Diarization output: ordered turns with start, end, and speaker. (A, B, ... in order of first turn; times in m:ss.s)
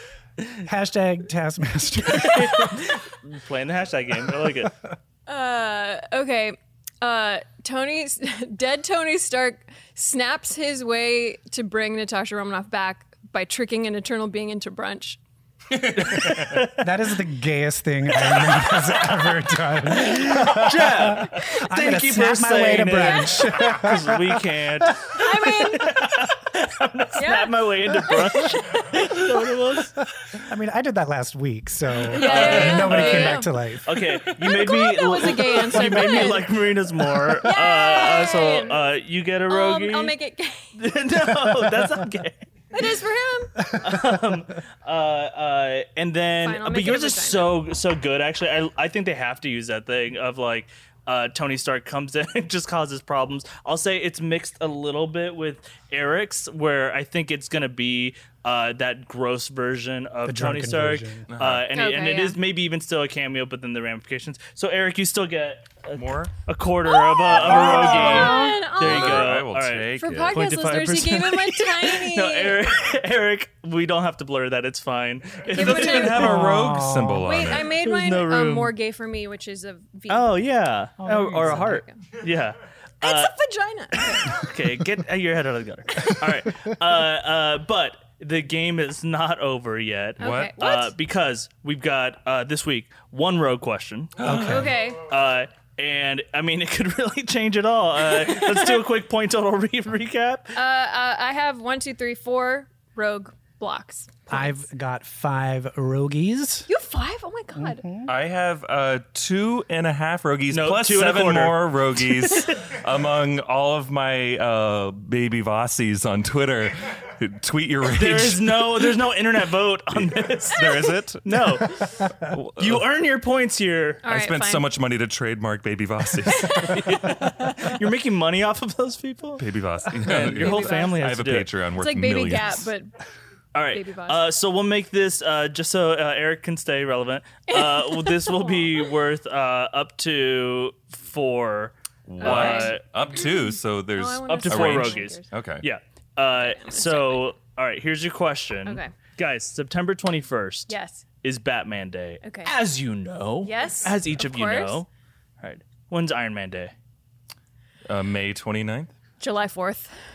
0:00.6-0:02.8 A
0:02.1-0:04.7 B
0:05.3-0:15.2 C
0:15.7-0:16.6 D
0:16.0-0:16.9 B
0:16.3-0:25.0 A
0:19.8-0:30.0 B
0:25.1-0:25.9 C
0:27.2-0:29.2 C
0:30.4-0:34.3 A
0:32.1-0:33.5 C
0:32.1-0:40.2 B
0:34.4-0:36.5 C
0:35.8-0:36.3 A
0:37.4-0:38.8 C
0:39.5-0:40.8 C
0:40.8-0:42.5 B
0:41.5-0:42.0 A
0:42.7-0:43.8 C
0:43.6-1:16.4 B
0:46.4-0:47.6 C
1:00.3-1:01.3 A
1:01.3-1:01.7 D
1:01.7-1:02.4 C
1:06.0-1:06.3 D
1:06.9-1:09.4 C
1:07.3-1:10.4 D
1:07.7-1:08.6 A
1:10.0-1:12.6 C
1:15.5-1:16.6 C
1:15.6-1:17.7 D
1:16.1-1:17.4 A
1:17.2-1:20.4 C
1:17.8-1:18.7 B
1:20.1-1:23.3 B
1:21.0-1:21.8 A
1:21.4-1:22.0 C
1:23.0-1:24.4 C
1:24.2-1:40.6 B
1:30.2-1:30.9 C
1:30.2-1:30.5 D
1:34.2-1:34.7 D
1:34.3-1:35.0 C
1:34.3-1:34.7 A
1:40.6-1:44.6 C
1:44.3-1:46.7 A
1:46.7-1:47.8 C
1:47.6-1:48.1 A
1:48.1-1:58.9 D
1:50.5-1:52.6 B
1:57.8-2:04.0 B
1:59.9-2:02.8 D
2:04.0-2:04.7 C
2:04.0-2:07.2 D
2:06.4-2:06.8 C
2:06.6-2:11.5 B
2:09.4-2:12.7 D
2:10.4-2:11.2 C
2:11.8-2:12.9 C
2:13.5-2:22.8 B
2:13.7-2:14.3 C
2:17.5-2:18.9 C
2:22.1-2:25.7 D
2:22.2-2:23.2 C
2:24.0-2:25.2 C
2:24.3-2:34.9 B
2:26.4-2:27.3 C
2:28.7-2:28.9 C
2:30.7-2:31.0 C
2:32.2-2:32.5 C
2:33.4-2:34.8 C
2:35.4-2:36.7 B
2:37.9-2:38.9 D
2:39.2-2:39.9 C